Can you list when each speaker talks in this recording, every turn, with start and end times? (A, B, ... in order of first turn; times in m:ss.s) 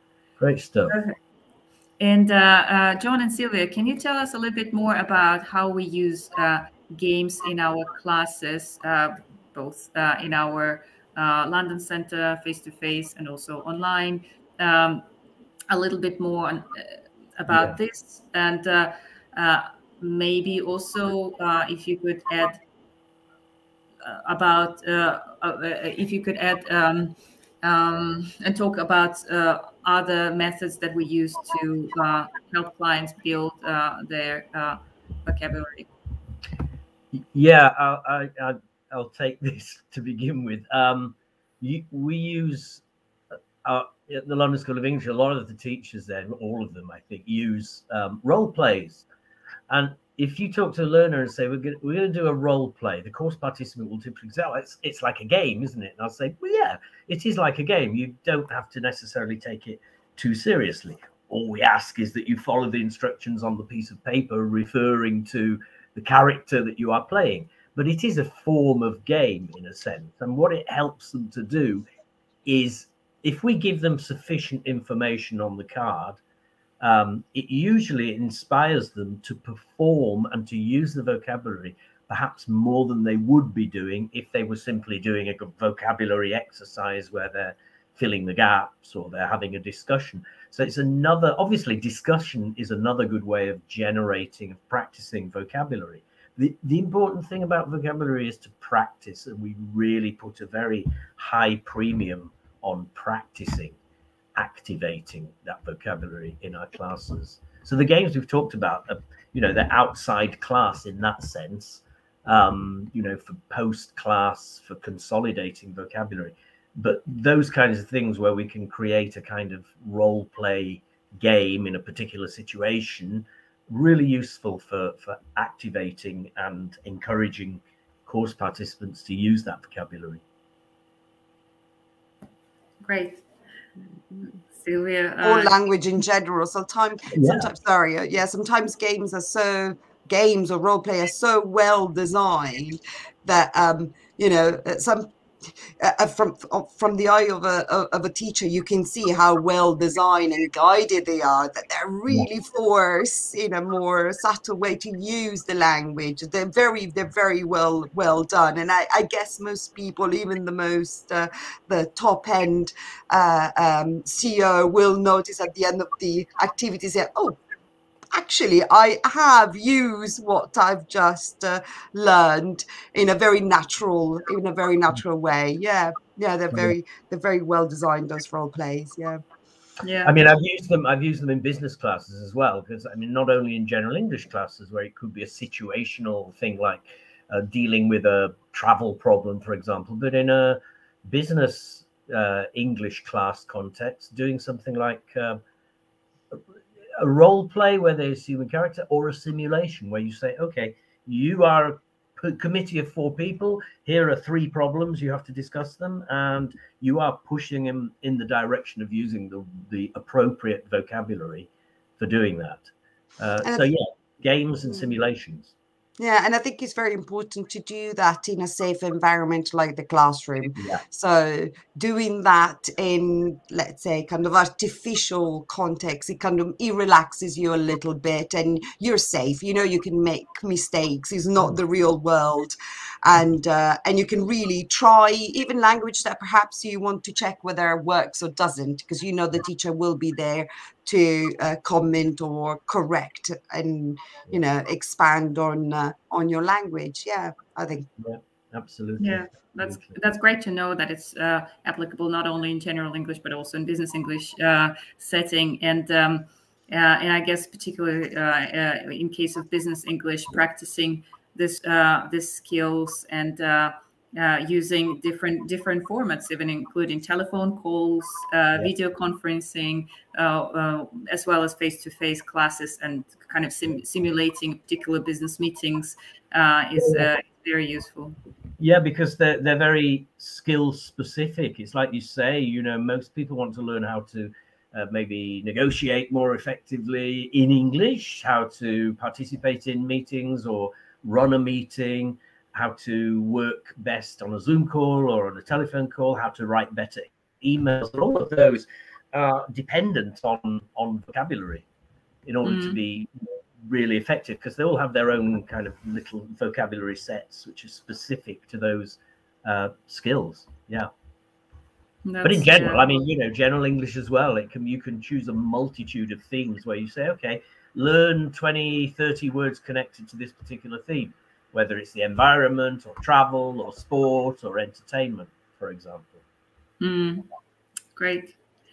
0:00.4-0:01.0 A
0:00.9-0:01.2 B
0:02.0-0:15.0 B
0:15.7-0:22.6 B
0:17.5-0:17.8 A
0:24.0-0:35.9 B
0:37.1-0:42.8 A
0:43.6-0:49.1 A
0:49.7-1:11.8 A
1:12.4-1:16.2 A
1:16.8-1:43.8 A
1:44.4-2:10.2 A
2:12.8-2:13.2 B
2:14.5-2:15.5 B
2:15.2-2:47.4 C
2:17.1-2:17.5 A
2:48.1-2:59.2 C
2:59.8-3:00.1 B
3:00.0-3:15.4 A
3:17.0-3:35.5 A
3:36.0-4:07.9 C
3:40.6-3:40.8 A
4:08.0-4:10.0 A
4:09.0-4:38.2 B
4:36.8-4:37.1 A
4:38.6-5:01.6 A
5:02.2-5:10.9 A
5:02.4-5:02.8 B
5:12.0-5:13.0 B
5:12.2-5:26.2 A
5:26.8-5:27.2 B
5:28.0-5:28.4 B